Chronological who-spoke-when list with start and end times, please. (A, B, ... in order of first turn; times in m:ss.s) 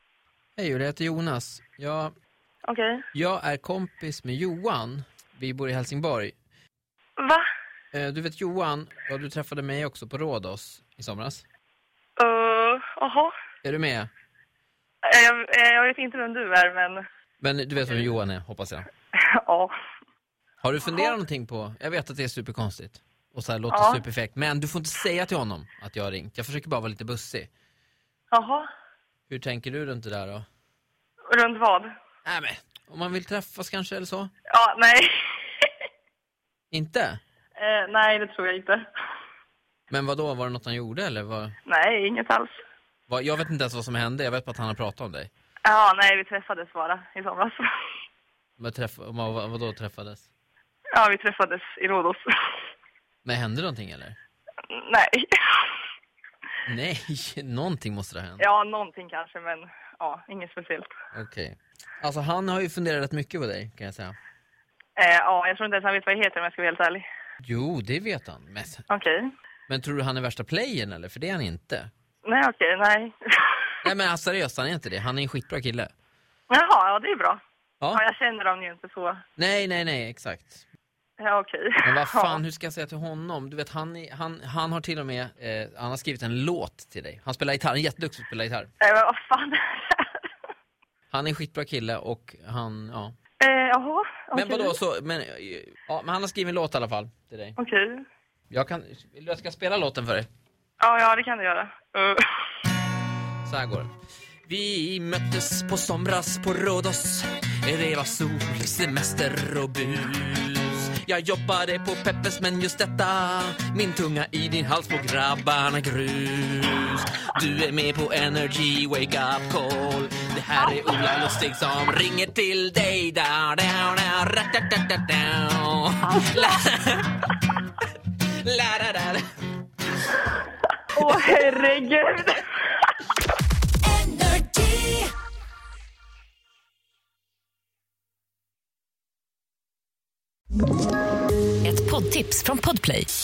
0:00.6-0:02.1 A
0:02.6-0:03.0 B
0:03.1-0:06.3 A
0:07.2-0:07.4 B
0:07.9-0:11.4 A
0:12.2-0:13.3 B
0:13.6-0:14.1 A
0:15.0-0:17.0 B
0:17.4-0:18.8 A
0:19.4-0:19.7 B
0:20.6-0:27.5 A
0:23.7-0:24.0 B
0:28.3-0:28.6 B
0:29.3-0:30.4 A
0:31.3-0:31.9 B
0:32.2-0:34.3 A
0:34.5-0:35.1 B
0:36.7-0:37.2 A
0:37.6-0:38.8 B
0:39.9-0:41.5 A
0:41.6-0:42.5 B
0:43.1-0:45.3 A
0:45.6-0:47.6 B
0:48.6-0:50.2 A
0:50.9-0:52.2 B
0:53.2-0:54.2 A
0:54.7-0:55.6 B
0:56.6-0:58.4 A
0:58.4-1:00.9 B
1:01.1-1:04.1 A
1:05.0-1:07.0 B
1:07.4-1:08.8 A
1:08.9-1:09.3 B
1:09.7-1:11.9 A
1:12.2-1:13.7 B
1:13.8-1:15.9 A
1:16.5-1:17.4 B
1:17.9-1:19.2 B
1:19.4-1:20.6 A
1:21.2-1:22.4 B
1:21.8-1:28.7 A
1:28.8-1:30.2 B
1:31.1-1:33.2 A
1:33.4-1:34.7 B
1:34.3-1:37.6 A
1:37.6-1:38.0 B
1:38.5-1:40.3 A
1:40.8-1:42.2 B
1:43.4-1:43.9 A
1:44.4-2:07.3 A
2:08.4-2:09.2 A
2:10.9-2:12.4 B
2:13.9-2:15.0 C
2:21.6-2:23.1 C